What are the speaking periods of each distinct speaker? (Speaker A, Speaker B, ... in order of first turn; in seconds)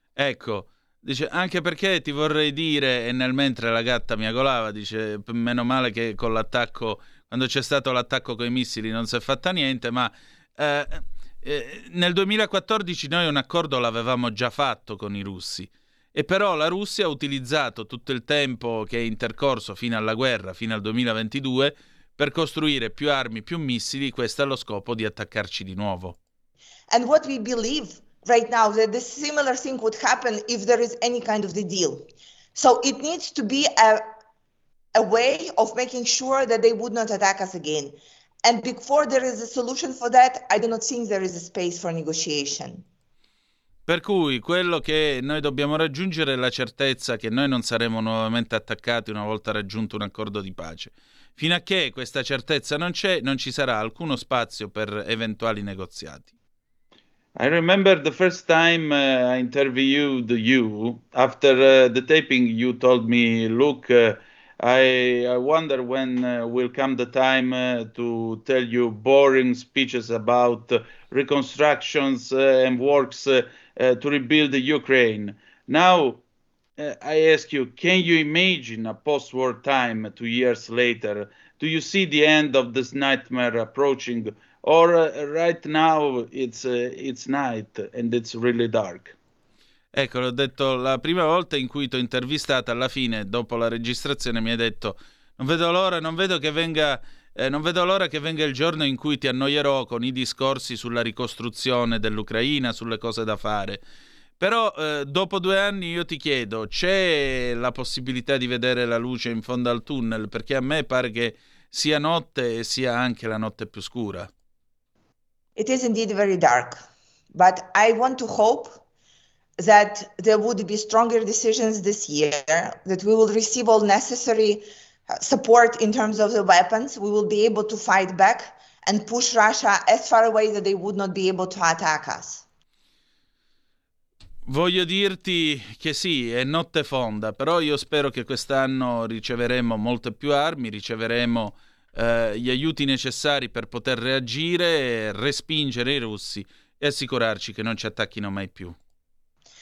Speaker A: 0.2-26.2, 43.9-56.3, 89.9-103.8, 104.4-114.3, 134.4-148.8
Speaker B: 26.9-34.1, 34.9-42.8, 115.5-116.8, 117.3-118.8, 119.6-124.7, 125.2-132.4
Speaker C: 57.4-76.2, 76.8-89.1